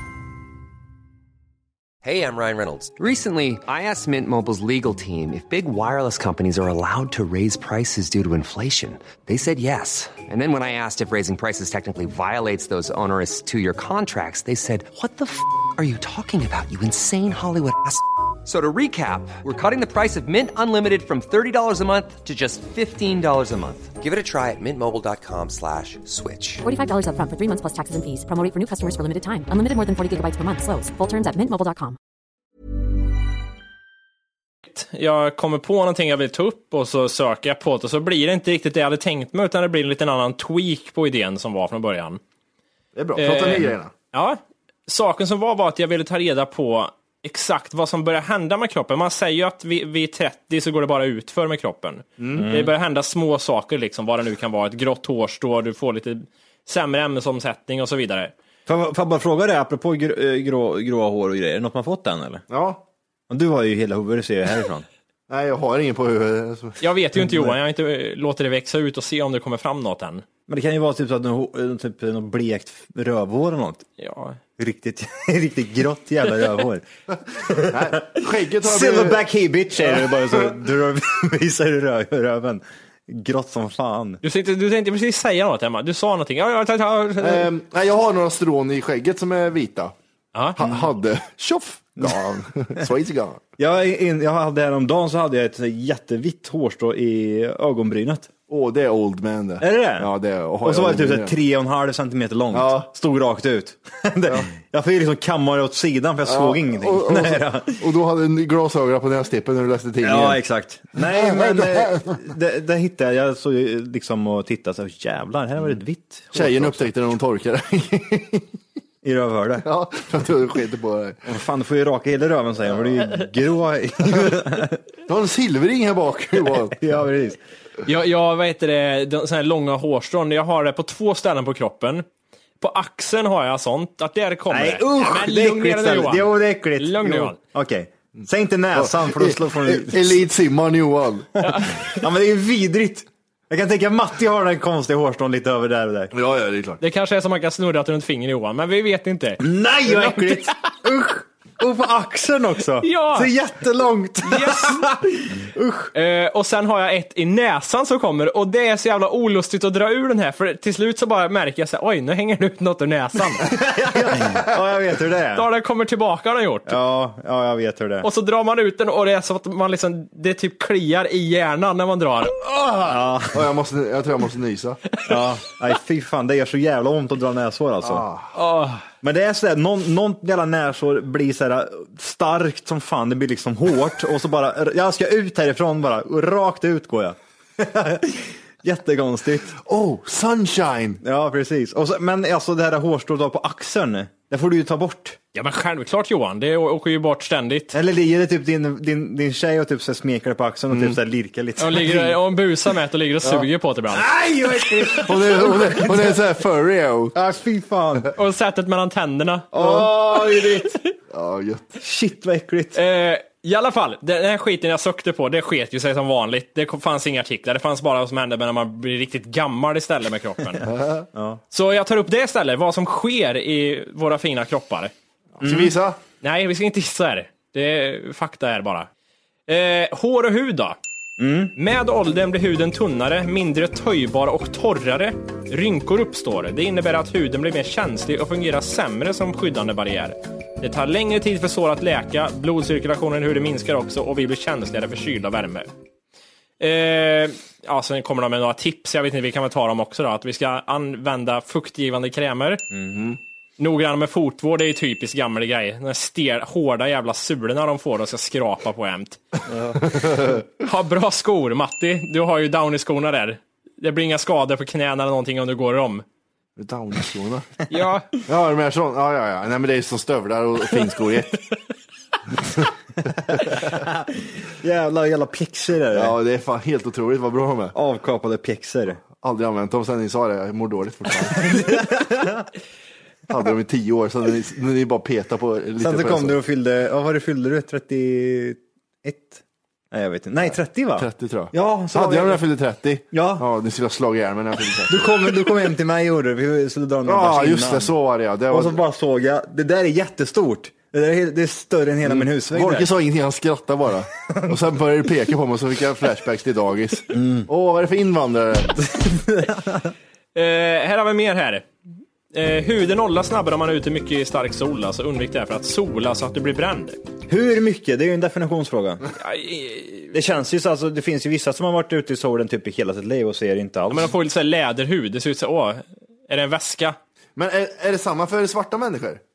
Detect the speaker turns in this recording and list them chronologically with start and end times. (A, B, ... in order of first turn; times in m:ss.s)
0:02.0-0:26.6 A
0:26.6-0:32.0 B
0:34.7-0:42.2 C
0:42.9-0:43.9 D
0:43.2-0:58.3 C
0:52.2-0:52.5 D
0:52.3-0:52.7 E
0:58.7-1:02.4 E
1:02.5-1:02.8 D
1:03.3-1:04.8 E
1:05.3-1:07.4 D
1:06.8-1:10.2 C
1:10.5-1:13.8 E
1:14.0-1:14.4 C
1:14.6-1:16.8 E
1:17.4-1:24.2 E
1:17.6-1:19.2 D
1:19.8-1:20.6 D
1:24.2-1:27.5 C
1:27.2-1:29.9 D
1:30.3-1:30.6 C
1:30.6-1:33.4 D
1:30.6-1:30.8 E
1:33.6-1:38.3 E
1:38.5-1:41.3 D
1:39.6-1:40.1 E
1:40.6-1:47.8 E
1:42.5-1:42.9 D
1:46.2-1:50.4 D
1:50.0-1:56.9 E
1:51.0-1:52.1 D
1:56.3-1:58.5 D
1:59.0-1:59.6 E
1:59.6-2:01.2 D
2:01.2-2:04.8 E
2:05.1-2:06.8 D
2:06.4-2:07.4 E
2:07.8-2:12.0 C
2:12.6-2:17.4 C
2:14.5-2:20.2 E
2:18.7-2:21.3 D
2:21.4-2:26.1 E
2:21.4-2:21.9 C
2:26.1-2:26.8 D
2:26.8-2:30.5 C
2:29.4-2:35.9 E
2:32.8-2:33.3 C
2:34.2-2:34.9 C
2:35.9-2:43.5 C
2:43.3-2:45.5 E
2:44.0-2:44.3 D
2:45.3-2:46.8 C
2:46.6-2:48.1 E
2:48.0-2:52.8 C
2:52.8-2:53.4 E
2:53.3-2:54.8 D
2:55.0-2:58.0 E
2:57.8-2:58.3 D
2:58.3-2:58.8 C
2:59.0-3:09.6 E
3:09.6-3:11.0 D
3:11.0-3:15.2 E
3:15.3-3:17.7 C
3:17.7-3:22.2 E
3:20.7-3:21.0 D
3:21.6-3:24.1 C
3:23.9-3:26.2 E
3:24.9-3:27.1 D
3:27.1-3:28.1 E
3:28.2-3:29.5 C
3:29.5-3:30.8 E
3:29.6-3:29.9 D
3:31.1-3:31.8 D
3:31.8-3:32.8 E
3:32.7-3:40.7 C
3:40.6-3:41.0 D
3:41.1-3:41.4 E
3:41.5-3:44.9 C
3:45.4-3:46.0 D
3:45.4-3:45.7 E
3:46.2-3:48.9 C
3:49.5-3:50.8 C
3:51.2-3:51.5 E
3:51.6-4:05.7 C
4:06.6-4:12.6 C
4:12.7-4:13.0 E
4:12.9-4:13.2 D
4:13.6-4:19.2 C
4:19.5-4:20.0 E
4:19.8-4:20.4 D
4:20.6-4:26.0 C
4:26.6-4:27.5 D
4:27.7-4:28.2 C
4:28.2-4:31.4 D
4:32.5-4:33.8 D
4:33.6-4:36.2 E
4:35.9-4:37.7 D
4:37.7-4:39.0 E
4:39.2-4:41.8 D
4:41.4-4:42.5 E
4:43.3-4:46.4 D
4:45.8-4:52.4 E
4:50.4-4:55.3 D
4:53.1-4:53.4 E
4:54.9-4:57.9 E
4:57.0-4:58.8 D
4:58.5-5:02.9 E
5:02.0-5:08.9 D
5:07.1-5:07.5 E
5:09.0-5:09.9 E
5:10.3-5:11.6 C
5:12.3-5:17.0 C
5:17.3-5:19.0 E
5:19.2-5:20.1 C
5:20.1-5:24.1 E
5:23.9-5:27.0 C
5:27.4-5:29.2 D